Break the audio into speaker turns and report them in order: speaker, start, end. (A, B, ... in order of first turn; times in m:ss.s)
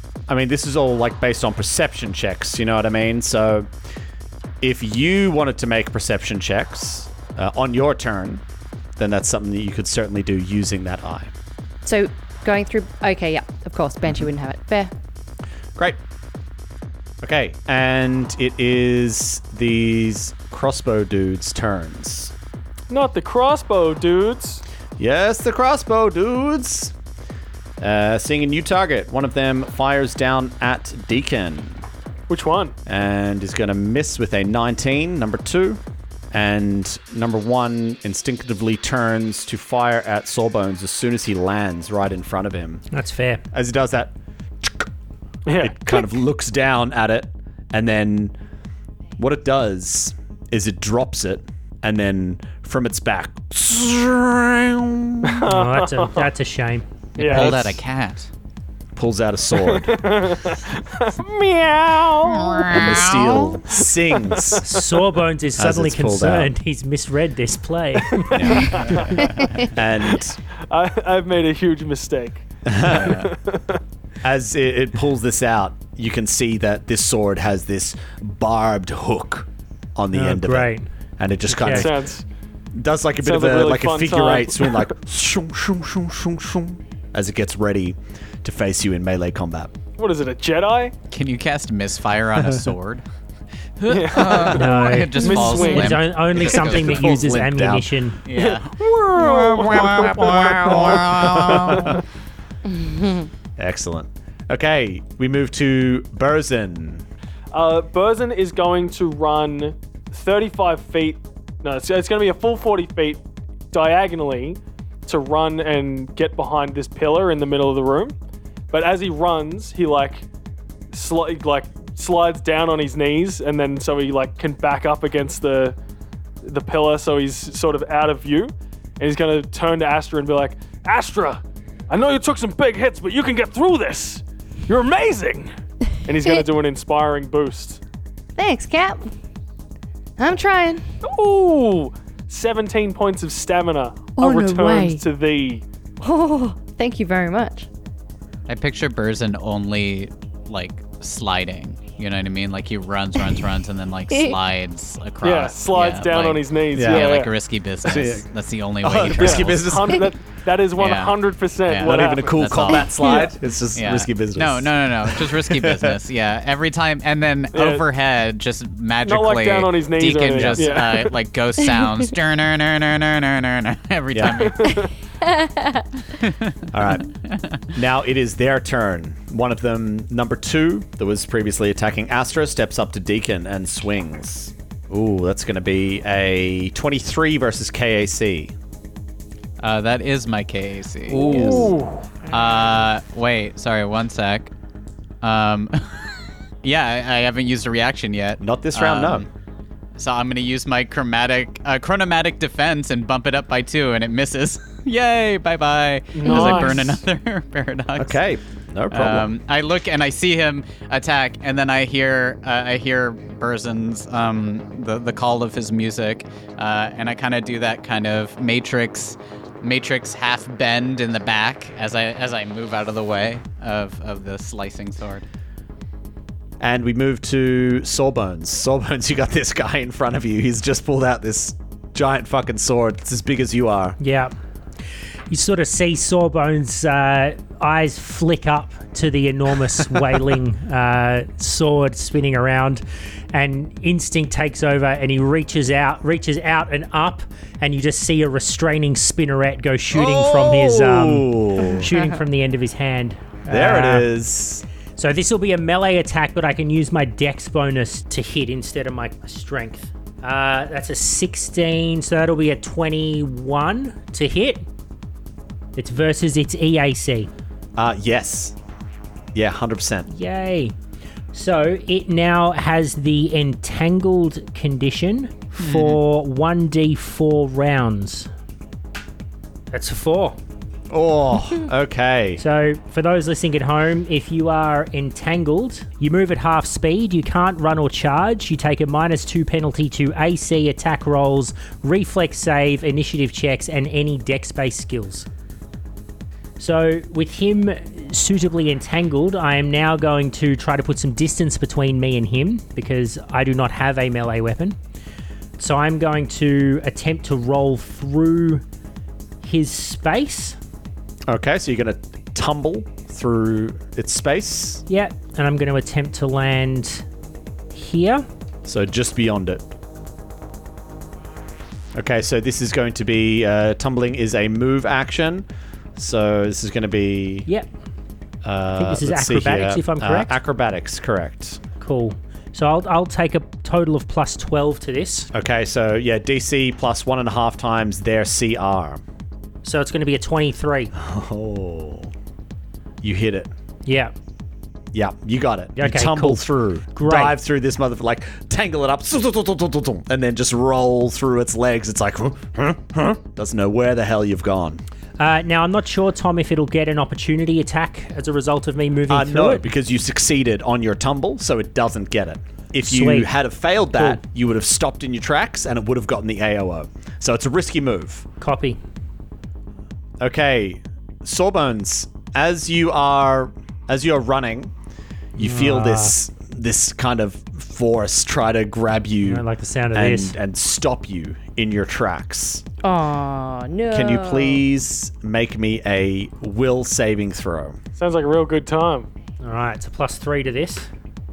0:00.3-0:03.7 A
0:04.6-0:08.4 A
0:09.0-0:11.3 A
0:11.8-0:14.9 B
0:17.2-0:22.3 A
0:22.9-0:24.6 C
0:25.0-0:26.9 A
0:27.8-0:31.8 A
0:32.3-0:32.7 C
0:32.8-0:35.8 A
0:36.3-0:42.8 A
0:42.9-0:43.4 D
0:43.5-0:44.9 A
0:45.4-0:46.1 C
0:45.6-0:48.3 A
0:49.2-0:55.4 A
0:55.2-0:56.3 C
0:55.5-0:57.8 D
0:57.2-0:57.6 C
0:57.2-0:58.3 E
0:59.0-1:00.3 A
0:59.6-1:03.1 C
1:02.2-1:03.6 E
1:02.7-1:04.6 A
1:03.8-1:05.0 C
1:04.6-1:08.7 D
1:05.6-1:06.6 A
1:08.2-1:09.3 C
1:08.3-1:10.4 A
1:08.6-1:09.5 E
1:10.2-1:13.8 C
1:12.6-1:13.2 A
1:12.8-1:13.3 E
1:14.2-1:22.0 A
1:20.1-1:20.9 D
1:21.5-1:21.9 D
1:21.6-1:22.2 C
1:22.7-1:29.7 A
1:23.2-1:24.9 C
1:30.0-1:30.9 C
1:31.1-1:33.0 E
1:33.8-1:37.1 E
1:33.9-1:36.0 C
1:34.5-1:38.2 D
1:36.3-1:38.0 A
1:38.2-1:38.8 E
1:38.3-1:42.0 C
1:38.8-1:42.0 A
1:39.6-1:42.0 E
1:42.7-1:43.3 B
1:43.6-1:47.0 A
1:47.5-1:58.1 C
1:58.7-2:00.2 C
2:00.9-2:05.8 C
2:06.4-2:15.5 C
2:16.1-2:17.8 C
2:18.4-2:19.1 B
2:20.2-2:20.9 B
2:21.0-2:25.6 C
2:24.2-2:25.0 B
2:26.0-2:27.7 B
2:28.5-2:39.8 E
2:34.1-2:34.4 B
2:35.2-2:37.3 C
2:36.7-2:37.2 A
2:37.8-2:38.2 A
2:38.8-2:40.1 A
2:39.2-2:42.5 C
2:40.8-2:54.8 E
2:41.8-2:46.0 A
2:42.7-2:43.3 B
2:47.5-2:47.8 C
2:49.0-2:51.2 C
2:50.3-2:50.8 A
2:54.1-2:54.5 A
2:54.2-2:54.9 C
2:54.6-2:55.9 B
2:56.2-2:57.6 E
2:56.7-3:08.5 A
3:09.6-3:11.7 E
3:11.1-3:12.2 C
3:11.1-3:11.7 A
3:12.3-3:14.5 E
3:15.2-3:19.3 E
3:18.4-3:19.3 A
3:20.0-3:28.2 E
3:26.1-3:27.0 C
3:28.0-3:29.3 A
3:28.9-3:45.2 E
3:46.6-3:54.0 A
3:54.0-3:54.3 D
3:55.3-4:14.1 D
4:09.9-4:11.9 A
4:11.6-4:12.2 B
4:13.5-4:14.6 A
4:15.0-4:24.6 D
4:25.8-4:27.3 D
4:27.8-4:28.5 A
4:29.3-4:30.1 A
4:30.1-4:30.7 D
4:31.3-4:38.3 D
4:35.6-4:36.0 E
4:39.7-4:40.4 D
4:40.9-4:42.4 A
4:42.4-4:55.3 D
4:56.6-5:04.8 D
5:05.6-5:08.6 D
5:09.4-5:10.6 D
5:11.3-5:14.8 A
5:14.9-5:17.0 D
5:17.7-5:18.2 D
5:18.6-5:19.6 A
5:21.9-5:25.4 A
5:26.0-5:27.5 A
5:28.4-5:31.6 A
5:28.8-5:30.4 D
5:31.8-5:35.3 D
5:35.3-5:39.0 A
5:39.6-5:40.9 D
5:40.9-5:42.1 A
5:43.0-5:43.5 A
5:43.8-5:44.1 D
5:44.9-5:54.8 A
5:45.8-5:47.4 D
5:55.2-5:59.7 D
5:59.1-6:08.2 A
6:02.8-6:03.3 D
6:03.9-6:04.2 D
6:08.4-6:08.8 D
6:10.2-6:14.7 A
6:15.3-6:22.6 A
6:15.4-6:16.1 D
6:19.2-6:20.4 D
6:22.8-6:24.6 B
6:23.9-6:27.8 A
6:28.0-6:29.1 C
6:29.4-6:30.9 D